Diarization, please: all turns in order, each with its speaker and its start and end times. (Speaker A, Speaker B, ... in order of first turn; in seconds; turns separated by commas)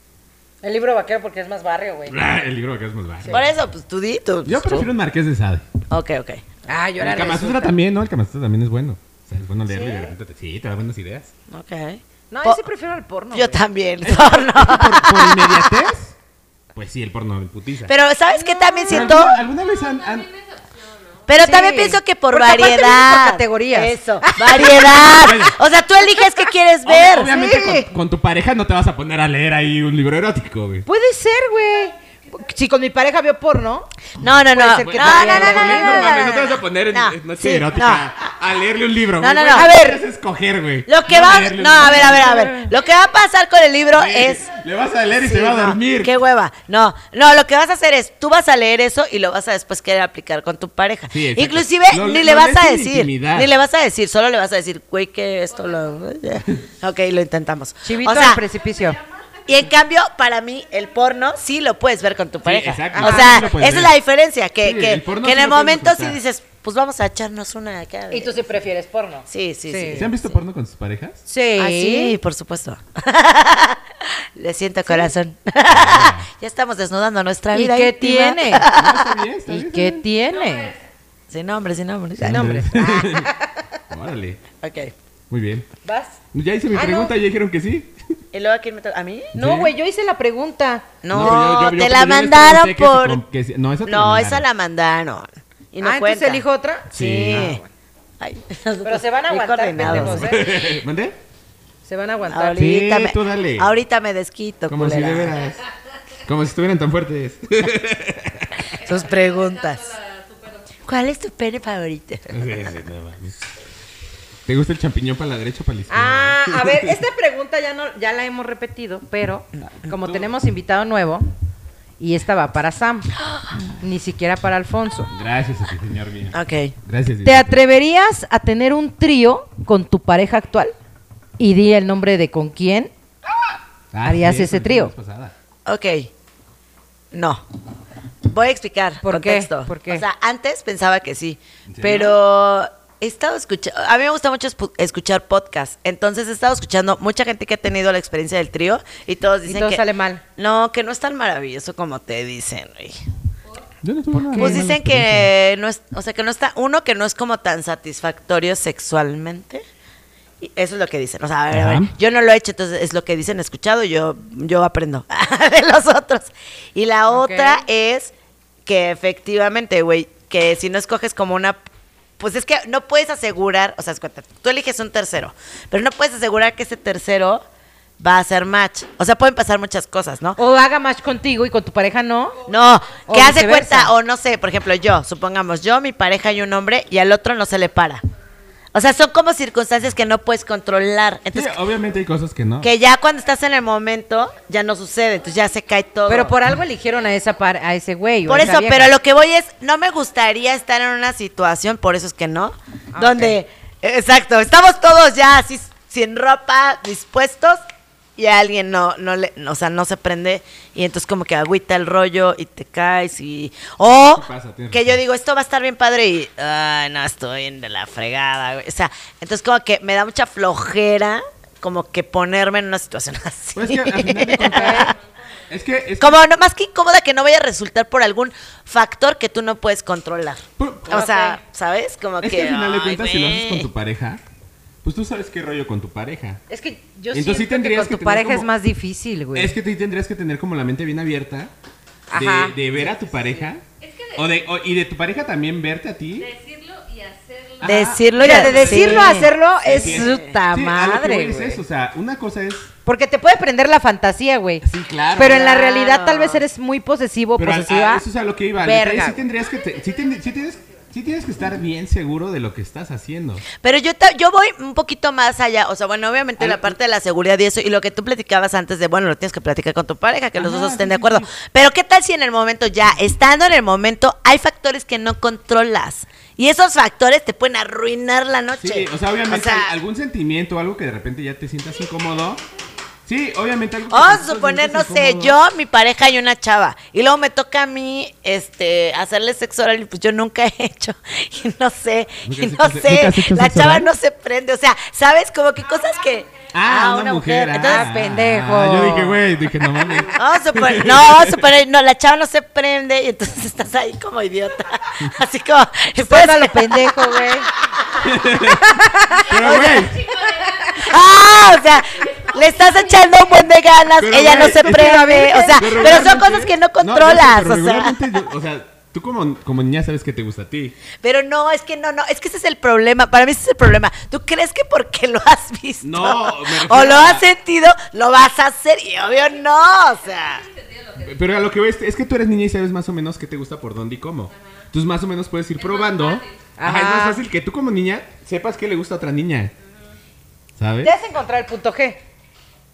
Speaker A: 0.6-2.1, Speaker B: 2.1-3.5, Speaker C: 3.3-4.9, Speaker B: 4.5-5.6, Speaker C: 5.9-6.4, Speaker A: 6.7-7.7, Speaker B: 7.0-11.3, Speaker A: 9.7-10.0, Speaker C: 11.5-12.6, Speaker A: 12.3-13.6, Speaker C: 13.3-15.7, Speaker B: 14.0-16.1, Speaker B: 16.7-17.9, Speaker C: 17.9-19.4, Speaker A: 18.3-19.1, Speaker B: 18.9-20.3, Speaker D: 19.4-21.4, Speaker C: 21.3-27.3, Speaker A: 21.4-25.1, Speaker B: 24.9-25.6, Speaker A: 26.1-26.4, Speaker B: 26.8-30.9, Speaker A: 27.2-27.9, Speaker A: 30.9-33.9, Speaker C: 34.2-38.1, Speaker A: 34.5-36.3, Speaker B: 34.8-42.5, Speaker C: 39.2-39.9, Speaker A: 39.5-40.0, Speaker C: 40.9-44.5, Speaker A: 41.9-42.7, Speaker B: 43.9-46.1, Speaker C: 45.2-58.4, Speaker B: 51.1-53.5, Speaker A: 57.8-59.0, Speaker C: 59.5-68.4, Speaker B: 62.4-64.0, Speaker A: 62.9-63.5, Speaker B: 64.6-66.2, Speaker A: 68.1-70.1, Speaker C: 69.3-70.3, Speaker B: 69.9-71.2, Speaker A: 71.3-72.1, Speaker C: 71.6-79.1, Speaker B: 75.7-76.3, Speaker A: 77.5-78.7, Speaker B: 78.7-80.0, Speaker A: 79.5-80.7, Speaker D: 80.2-80.8, Speaker C: 81.3-82.8, Speaker B: 82.2-83.3, Speaker A: 82.2-83.5, Speaker B: 83.9-84.4, Speaker C: 84.6-84.9, Speaker B: 85.3-85.7, Speaker A: 85.8-86.2, Speaker B: 86.3-88.0, Speaker A: 86.7-87.1, Speaker C: 88.3-89.3, Speaker B: 89.3-89.7, Speaker A: 89.3-90.9, Speaker C: 91.0-93.2, Speaker B: 91.1-94.4, Speaker C: 93.8-97.6, Speaker A: 95.8-97.6, Speaker B: 96.9-97.6, Speaker C: 98.2-100.5, Speaker A: 98.8-100.5, Speaker B: 99.8-101.2, Speaker A: 101.8-102.6, Speaker C: 102.3-105.3, Speaker B: 102.5-103.7, Speaker B: 104.7-105.6, Speaker B: 106.2-108.6, Speaker D: 108.8-110.7, Speaker C: 108.8-109.9, Speaker C: 110.8-112.3, Speaker B: 112.3-113.4, Speaker B: 114.5-117.0, Speaker A: 115.9-121.2, Speaker B: 119.8-120.3, Speaker A: 122.0-123.1, Speaker A: 123.7-125.1, Speaker B: 125.1-127.6, Speaker C: 126.3-126.7, Speaker A: 127.2-130.7, Speaker A: 131.4-132.9, Speaker B: 133.9-135.3, Speaker A: 134.0-134.9, Speaker C: 135.7-136.1, Speaker C: 137.1-137.4, Speaker C: 138.2-149.8, Speaker A: 139.0-140.0, Speaker B: 141.7-142.2, Speaker A: 149.4-150.2, Speaker C: 150.3-153.0, Speaker B: 153.8-155.3, Speaker A: 154.2-154.6, Speaker C: 154.3-159.6, Speaker C: 160.4-168.1, Speaker B: 161.5-161.9, Speaker A: 167.1-167.6, Speaker C: 168.7-171.6, Speaker C: 172.2-177.4, Speaker C: 178.0-180.4, Speaker A: 180.4-182.4, Speaker C: 182.5-188.0, Speaker A: 183.1-183.9, Speaker C: 188.7-191.6, Speaker B: 191.3-192.7, Speaker C: 192.6-196.3, Speaker A: 196.1-198.9, Speaker C: 198.3-207.6, Speaker A: 202.9-203.4, Speaker C: 208.2-224.9, Speaker B: 213.9-215.0, Speaker B: 223.5-224.9, Speaker A: 224.4-224.9, Speaker B: 225.5-226.2, Speaker C: 226.0-233.7, Speaker B: 230.6-231.1, Speaker A: 230.9-231.3, Speaker B: 232.2-234.2, Speaker B: 234.8-236.4, Speaker A: 236.5-239.5, Speaker B: 237.1-238.5, Speaker B: 239.3-241.5, Speaker A: 242.1-242.6, Speaker B: 242.1-243.6, Speaker D: 243.8-244.4, Speaker B: 244.2-246.3, Speaker D: 246.2-248.1, Speaker B: 247.6-252.7, Speaker C: 247.6-250.3, Speaker A: 248.1-251.6, Speaker A: 252.8-254.6, Speaker B: 254.6-255.5, Speaker A: 255.2-258.0, Speaker C: 255.2-256.4, Speaker B: 257.4-263.4, Speaker A: 258.6-259.2, Speaker C: 263.6-279.7, Speaker B: 266.4-266.7, Speaker B: 270.4-271.3, Speaker B: 278.6-282.4, Speaker B: 283.1-285.4, Speaker C: 283.9-297.9, Speaker B: 292.2-293.9, Speaker D: 296.1-296.4, Speaker B: 296.5-301.4, Speaker A: 297.6-299.2, Speaker C: 300.1-307.9, Speaker A: 306.0-307.5, Speaker B: 308.0-308.7, Speaker A: 308.4-309.2, Speaker D: 309.2-313.2, Speaker B: 309.3-310.0, Speaker C: 309.3-310.1, Speaker C: 310.7-318.0, Speaker B: 314.0-320.8, Speaker A: 314.3-316.2, Speaker C: 321.0-330.4, Speaker B: 325.8-327.2, Speaker D: 329.1-331.4, Speaker B: 331.0-339.5, Speaker D: 334.3-334.6, Speaker D: 335.6-336.5, Speaker A: 336.6-337.2, Speaker D: 339.6-339.9, Speaker B: 340.6-340.9, Speaker A: 340.8-342.0